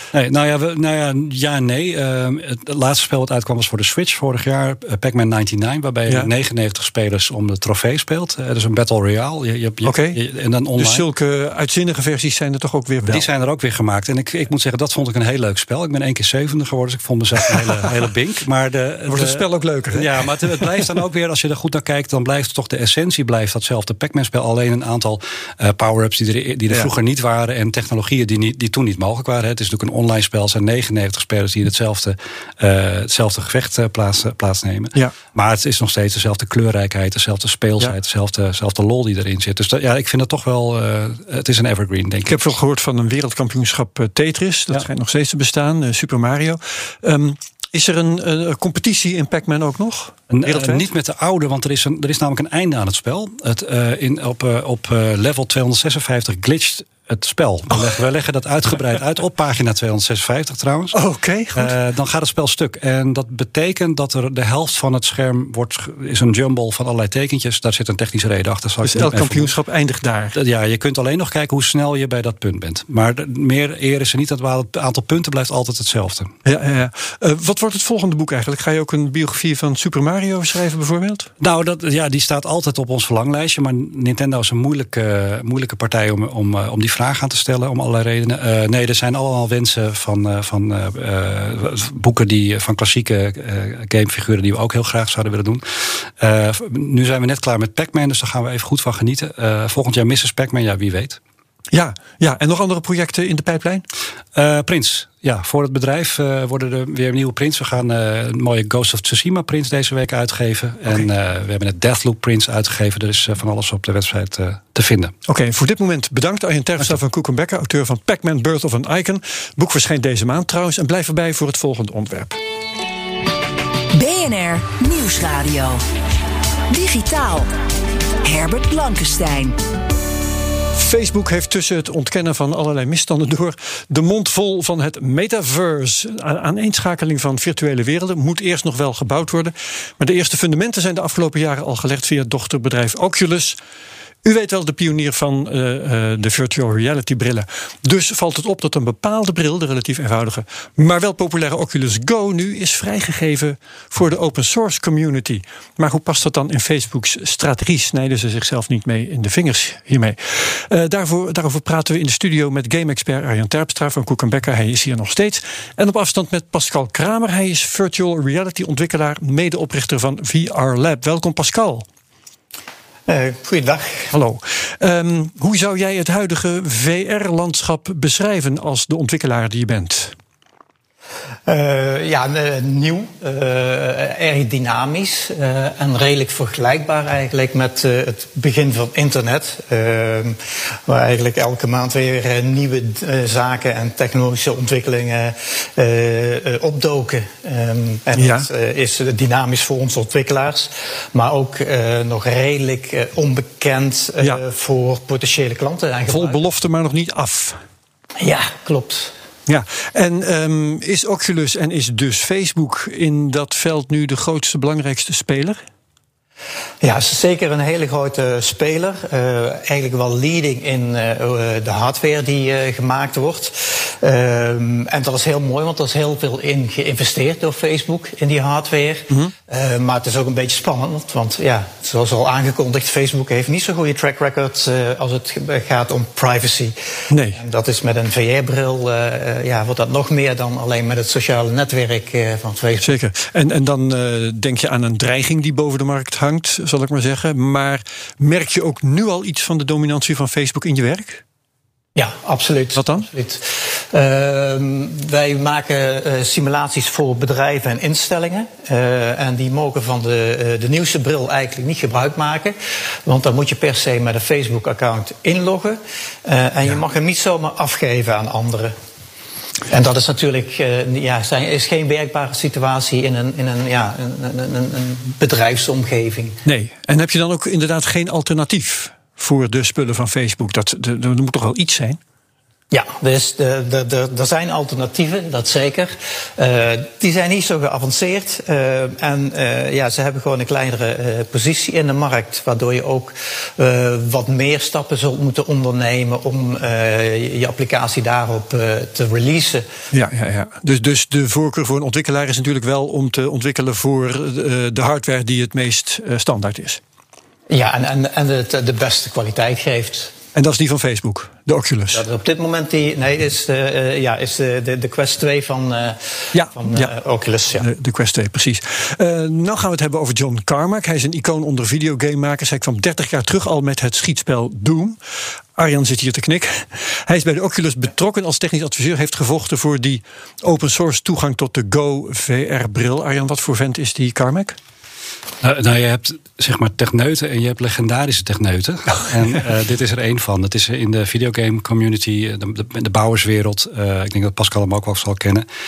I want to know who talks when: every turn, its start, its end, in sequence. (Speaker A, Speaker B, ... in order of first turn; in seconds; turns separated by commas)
Speaker A: 0.1-11.1, Speaker B: 9.8-10.2, Speaker B: 10.8-13.2, Speaker A: 13.1-42.6, Speaker B: 19.1-20.8, Speaker B: 42.3-50.8, Speaker A: 50.3-61.0, Speaker B: 60.9-61.7, Speaker A: 61.5-69.5, Speaker B: 68.8-70.4, Speaker A: 70.3-76.3, Speaker B: 76.5-81.3, Speaker A: 81.4-101.2, Speaker B: 101.7-103.9, Speaker A: 104.3-115.1, Speaker B: 115.3-122.4, Speaker C: 123.9-125.8, Speaker C: 126.7-127.5, Speaker C: 128.2-129.6, Speaker B: 130.8-143.6, Speaker B: 144.2-171.8, Speaker D: 173.1-174.1, Speaker B: 174.1-180.2, Speaker D: 181.5-206.4, Speaker B: 198.2-198.5, Speaker B: 206.1-207.6, Speaker D: 208.2-209.1, Speaker B: 209.5-215.6, Speaker D: 216.8-236.8, Speaker B: 237.1-237.4, Speaker D: 237.3-242.9, Speaker B: 242.8-251.2, Speaker D: 252.0-268.7, Speaker B: 252.8-253.1, Speaker D: 269.7-276.4, Speaker B: 276.4-282.0, Speaker D: 282.7-299.6, Speaker B: 299.9-306.8, Speaker D: 307.5-310.1, Speaker B: 310.3-312.0, Speaker D: 311.9-317.7, Speaker B: 316.3-316.9, Speaker B: 317.6-325.0, Speaker B: 325.6-334.6, Speaker A: 335.4-345.5